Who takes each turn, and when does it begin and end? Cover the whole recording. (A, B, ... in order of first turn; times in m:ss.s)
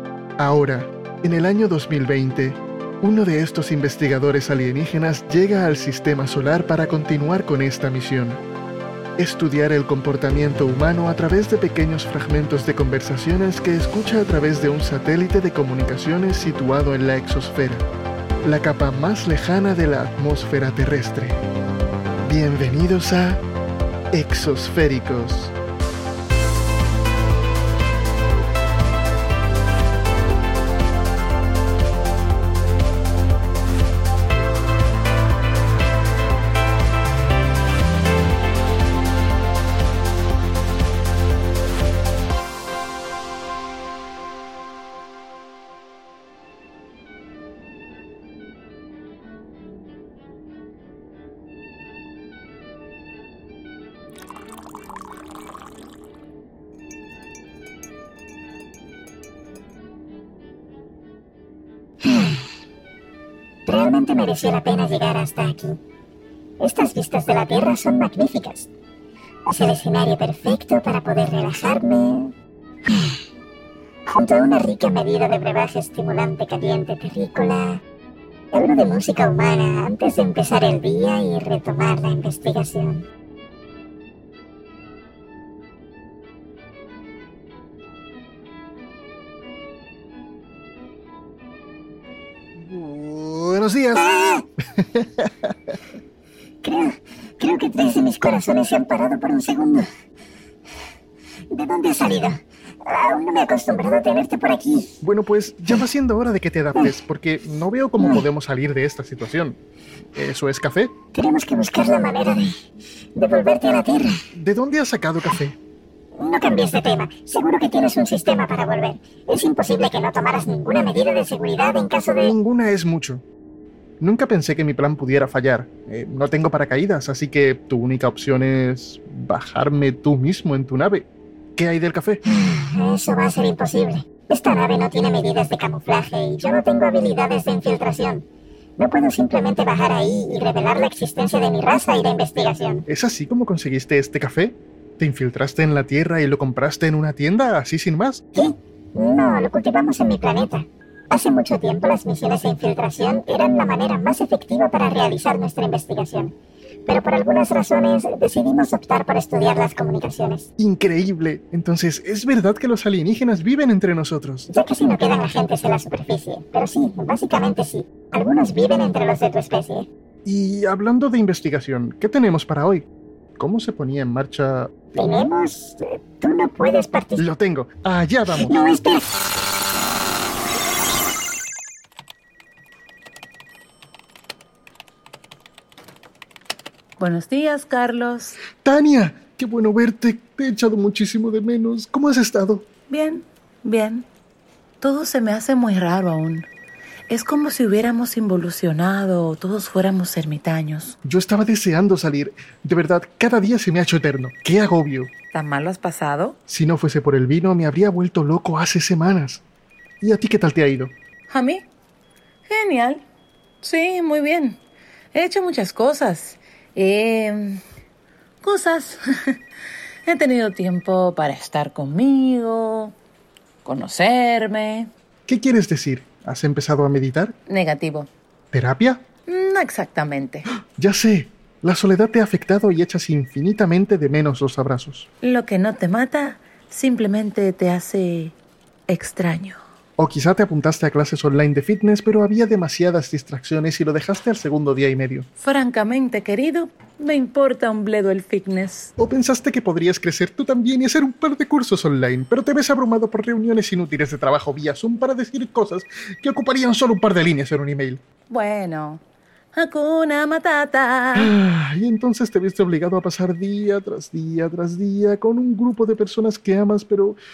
0:00.4-0:08.4 A
0:09.2-0:17.9 A
0:18.4-0:21.4 A
0:22.2-0:23.4 A
0:24.1-0:25.6 A
1:02.0-1:02.3 B
1:03.7-1:05.8 B
1:06.6-1:08.7 B
1:09.5-1:12.3 B
1:14.1-1:17.8 B
1:18.5-1:23.0 B
1:32.7-1:34.1 A
1:34.0-1:34.4 B
1:34.8-1:35.8 A
1:36.6-1:36.9 B
1:37.4-1:39.8 B
1:41.5-1:44.9 B
1:45.0-1:49.6 A
1:50.2-1:50.9 A
1:51.1-1:52.5 B
1:53.2-1:54.1 B
1:54.3-1:55.6 A
1:56.2-2:02.3 B
2:02.2-2:03.2 A
2:04.0-2:12.2 A
2:12.6-2:18.2 B
2:18.8-2:22.8 B
2:22.9-2:28.2 A
2:28.3-2:36.3 B
2:36.9-2:40.4 B
2:40.6-2:44.5 A
2:44.5-2:49.9 B
2:50.2-2:54.9 A
2:55.0-2:57.2 B
2:57.2-2:58.5 A
2:58.4-2:59.0 B
3:07.0-3:08.4 C
3:08.6-3:12.7 A
3:12.9-3:14.0 C
3:14.8-3:16.5 C
3:17.1-3:21.0 C
3:21.0-3:25.1 A
3:25.3-3:26.4 C
3:26.5-3:29.4 A
3:30.0-3:30.9 A
3:31.3-3:31.6 C
3:32.5-3:33.0 C
3:33.6-3:34.6 C
3:35.1-3:37.6 C
3:38.4-3:39.4 C
3:40.1-3:42.9 C
3:43.6-3:44.9 C
3:45.3-3:47.3 A
3:47.5-3:48.1 C
3:48.5-3:49.0 A
3:49.3-3:50.5 C
3:50.8-3:55.1 A
3:55.2-3:58.3 C
3:58.9-3:59.6 C
4:00.0-4:05.3 A
4:05.4-4:08.9 C
4:09.0-4:18.0 A
4:18.3-4:19.0 C
4:19.6-4:21.3 C
4:21.2-4:27.2 A